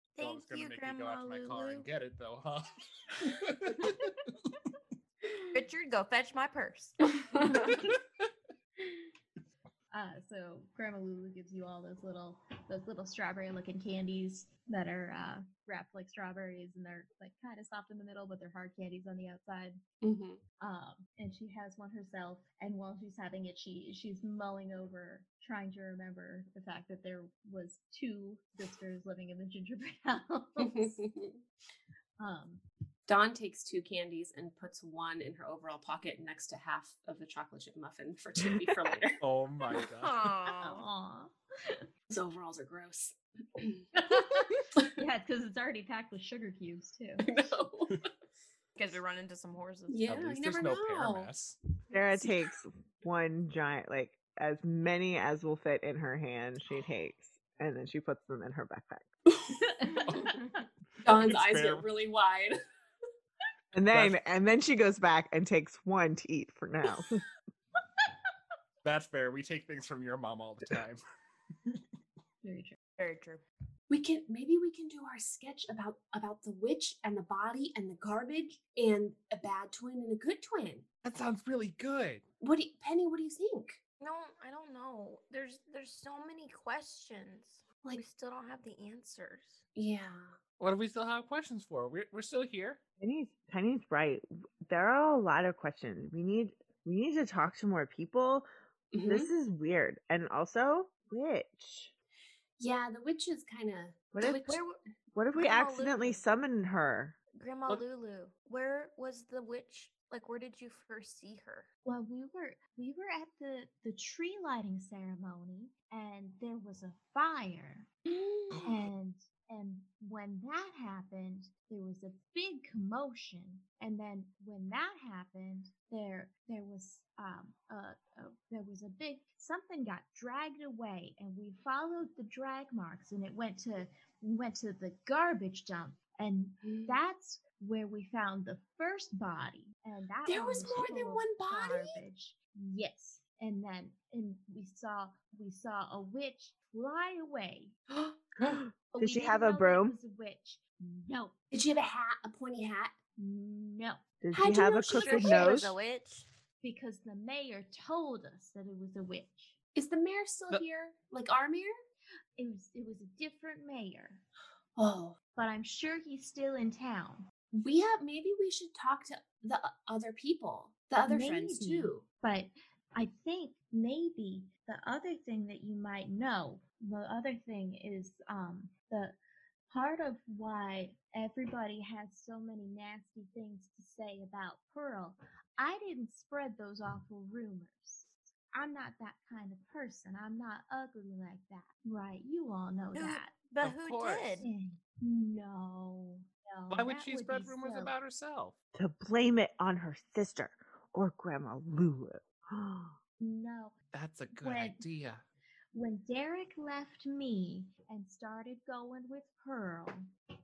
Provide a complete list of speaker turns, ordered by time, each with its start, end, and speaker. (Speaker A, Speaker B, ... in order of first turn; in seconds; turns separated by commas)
Speaker A: 0.1-1.9, Speaker B: 0.2-4.5, Speaker A: 5.5-7.1, Speaker C: 7.2-7.6, Speaker D: 9.9-19.8, Speaker C: 20.0-20.4, Speaker D: 20.6-31.0, Speaker C: 30.6-31.4, Speaker D: 32.2-32.6, Speaker C: 33.1-39.2, Speaker B: 39.2-40.3, Speaker A: 40.0-40.9, Speaker D: 40.6-41.8, Speaker C: 42.1-43.9, Speaker D: 43.9-47.4, Speaker C: 47.2-48.1, Speaker A: 48.8-50.1, Speaker C: 49.9-51.3, Speaker B: 50.1-51.5, Speaker E: 51.9-59.1, Speaker C: 59.3-60.3, Speaker D: 59.8-60.5, Speaker B: 60.1-60.4, Speaker C: 61.0-62.6, Speaker B: 61.0-61.9, Speaker E: 63.7-67.2, Speaker B: 63.9-64.2, Speaker B: 68.8-71.0, Speaker D: 72.4-72.8, Speaker A: 73.0-73.4, Speaker C: 73.9-80.8, Speaker B: 81.0-82.2, Speaker C: 82.4-83.8, Speaker A: 84.0-89.6, Speaker C: 89.8-90.4, Speaker B: 90.6-92.8, Speaker E: 93.0-98.5, Speaker C: 98.9-99.3, Speaker E: 99.0-101.9, Speaker C: 102.6-104.6, Speaker E: 104.1-104.6, Speaker A: 104.4-104.8, Speaker E: 105.1-107.2, Speaker A: 105.3-106.2, Speaker A: 107.3-111.7, Speaker D: 111.8-117.9, Speaker C: 118.0-118.8, Speaker D: 118.6-147.7, Speaker C: 136.6-137.0, Speaker C: 140.3-142.0, Speaker E: 148.4-150.0, Speaker D: 148.9-151.3, Speaker C: 151.5-152.9, Speaker D: 153.2-154.0, Speaker E: 154.2-155.8, Speaker C: 154.3-155.7, Speaker A: 154.9-156.3, Speaker D: 156.6-159.5, Speaker C: 159.7-161.7, Speaker D: 162.4-164.2, Speaker C: 164.8-165.2, Speaker D: 165.3-167.3, Speaker C: 167.5-172.0, Speaker D: 171.0-179.1, Speaker D: 179.7-193.3, Speaker A: 192.9-194.5, Speaker B: 193.6-194.5, Speaker D: 194.4-197.9, Speaker B: 196.7-198.5, Speaker E: 198.7-203.0, Speaker D: 203.2-203.7, Speaker B: 203.9-205.2, Speaker D: 204.3-204.8, Speaker D: 205.7-210.1